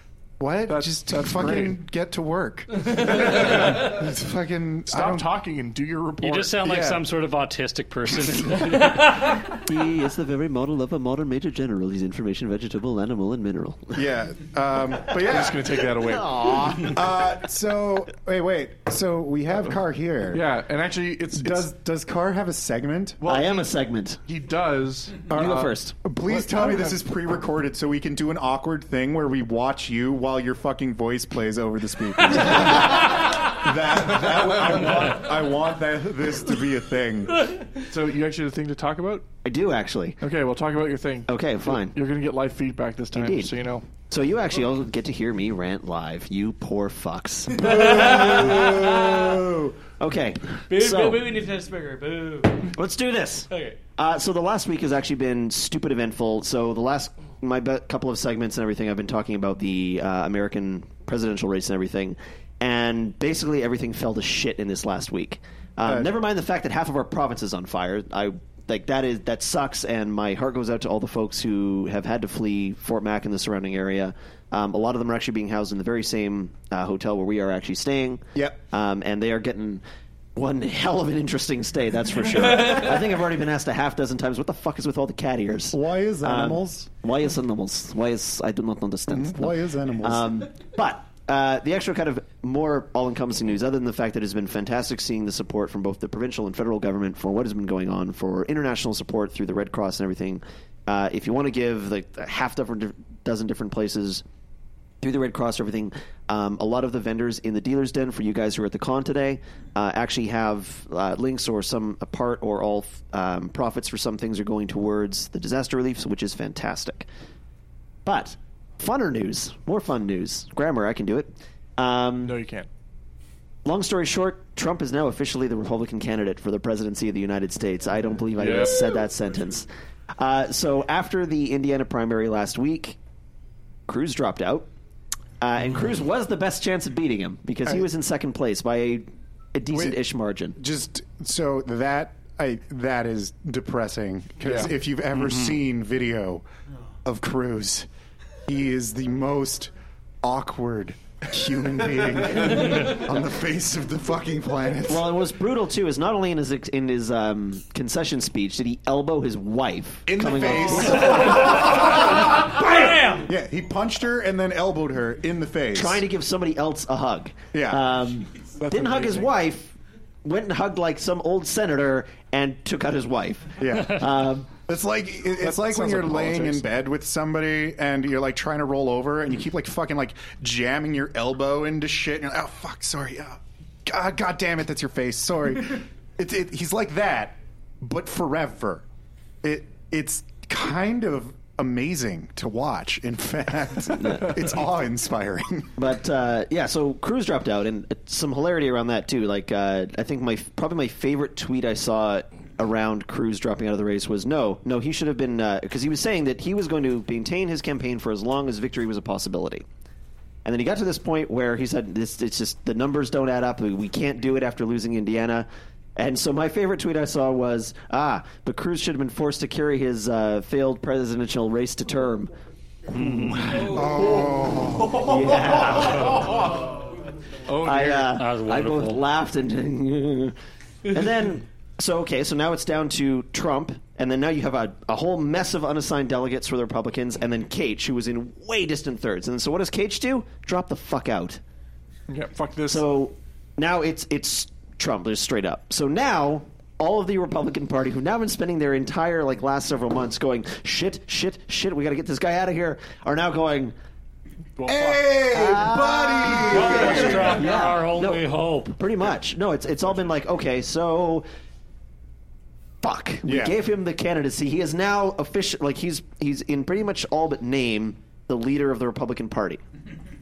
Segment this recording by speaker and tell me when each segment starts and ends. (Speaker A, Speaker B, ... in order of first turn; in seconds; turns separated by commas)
Speaker A: 0.4-5.3, Speaker B: 0.7-1.8, Speaker B: 3.0-3.9, Speaker B: 4.9-7.0, Speaker C: 6.2-9.4, Speaker A: 6.7-6.9, Speaker D: 9.5-14.0, Speaker A: 13.9-15.6, Speaker B: 15.2-16.9, Speaker D: 16.0-17.0, Speaker A: 16.7-20.4, Speaker B: 20.3-21.7, Speaker A: 21.3-23.2, Speaker B: 23.2-23.7, Speaker D: 23.2-24.2, Speaker B: 24.2-25.7, Speaker A: 25.3-37.5, Speaker D: 25.3-26.0, Speaker B: 26.3-27.0, Speaker B: 37.9-39.3, Speaker D: 39.4-40.2, Speaker B: 40.2-43.9, Speaker D: 41.3-42.0, Speaker D: 43.1-43.5, Speaker D: 44.1-49.3, Speaker A: 47.5-49.7, Speaker E: 47.8-49.2, Speaker D: 50.0-51.3, Speaker E: 50.7-52.7, Speaker D: 52.6-79.8, Speaker E: 53.5-53.8, Speaker D: 80.3-104.2, Speaker A: 85.7-86.9, Speaker A: 89.1-90.3, Speaker D: 105.0-117.1, Speaker D: 118.0-122.4, Speaker B: 122.2-122.7, Speaker D: 123.6-133.0, Speaker B: 128.4-128.7, Speaker D: 133.9-134.7, Speaker D: 135.4-140.6, Speaker A: 139.7-140.0, Speaker A: 140.6-146.4, Speaker B: 144.4-144.7, Speaker C: 145.2-145.5, Speaker A: 147.0-147.9, Speaker A: 148.5-149.7, Speaker A: 150.2-155.1, Speaker D: 154.8-162.3, Speaker A: 160.1-166.0, Speaker E: 162.4-163.2, Speaker D: 165.7-174.5, Speaker A: 167.5-167.8, Speaker B: 168.6-169.3, Speaker A: 173.6-188.8, Speaker B: 175.4-176.7, Speaker A: 189.4-195.7, Speaker D: 194.0-194.4, Speaker D: 195.8-209.6, Speaker D: 210.4-222.3, Speaker C: 222.9-223.9, Speaker A: 223.5-225.4, Speaker D: 224.8-226.5, Speaker C: 225.9-226.2, Speaker B: 227.5-228.1, Speaker D: 227.5-230.3, Speaker C: 228.2-229.0, Speaker D: 230.8-241.4, Speaker B: 242.1-242.8, Speaker D: 242.7-253.8, Speaker B: 254.6-255.2, Speaker A: 254.7-257.4, Speaker D: 255.3-261.2, Speaker C: 256.4-258.8, Speaker D: 262.8-269.6, Speaker A: 263.2-263.6